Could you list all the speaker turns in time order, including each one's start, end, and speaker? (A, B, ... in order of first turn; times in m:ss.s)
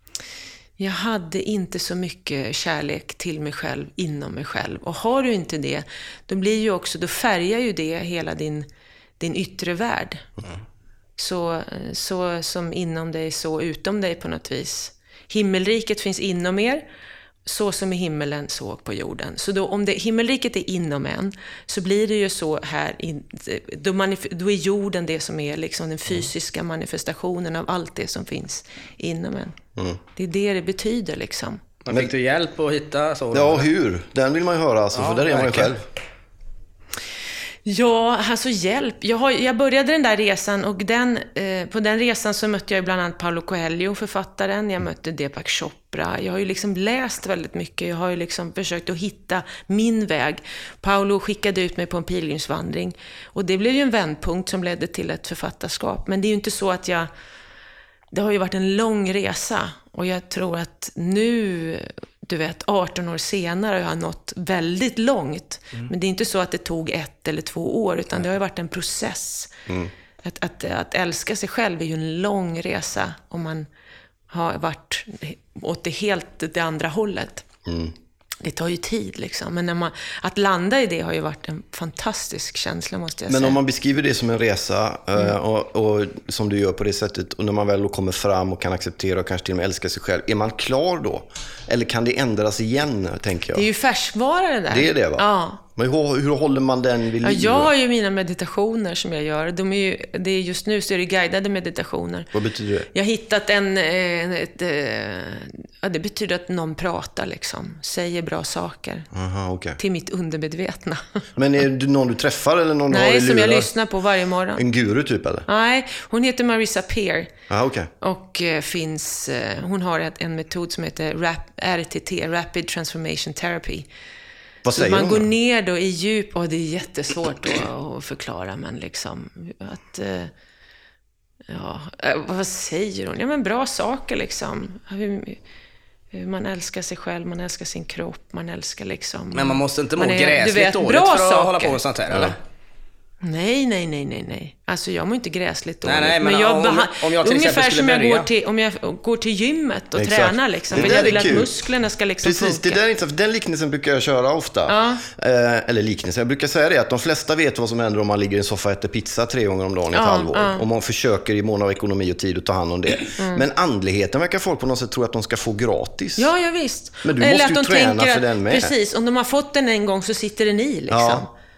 0:00.8-0:08.7 A
0:09.2-0:10.3 A
0:11.2-0:16.8 A
0:17.4-0:29.6 A
0:30.1-0:31.6 A
0:31.8-0:33.7 B
0:33.3-0:35.8 C
0:35.0-0:35.8 B
0:37.6-0:57.1 A
0:58.1-1:09.5 A
1:10.2-1:13.7 A
1:14.3-1:17.4 A
1:17.6-1:17.9 C
1:18.4-1:23.6 A
1:23.3-1:33.7 C
1:33.5-1:35.6 A
1:34.7-1:37.7 C
1:37.2-1:42.3 A
1:42.3-1:42.9 C
1:42.9-1:49.1 A
1:49.1-1:49.8 C
1:49.8-1:51.2 A
1:51.4-1:53.7 C
1:52.9-1:54.6 A
1:54.5-1:55.4 C
1:55.5-1:57.3 A
1:57.5-1:57.9 C
1:58.0-2:03.9 A
2:04.6-2:05.3 C
2:04.7-2:10.3 A
2:11.5-2:15.4 A
2:16.1-2:21.8 A
2:19.3-2:22.4 B
2:23.2-2:32.8 A
2:25.8-2:28.3 B
2:29.9-2:31.5 C
2:30.7-2:31.2 B
2:32.2-2:46.3 C
2:34.7-2:35.0 A
2:39.9-2:40.6 A
2:43.2-2:43.4 A
2:46.2-2:51.3 A
2:47.0-2:48.7 C
2:50.9-2:51.3 C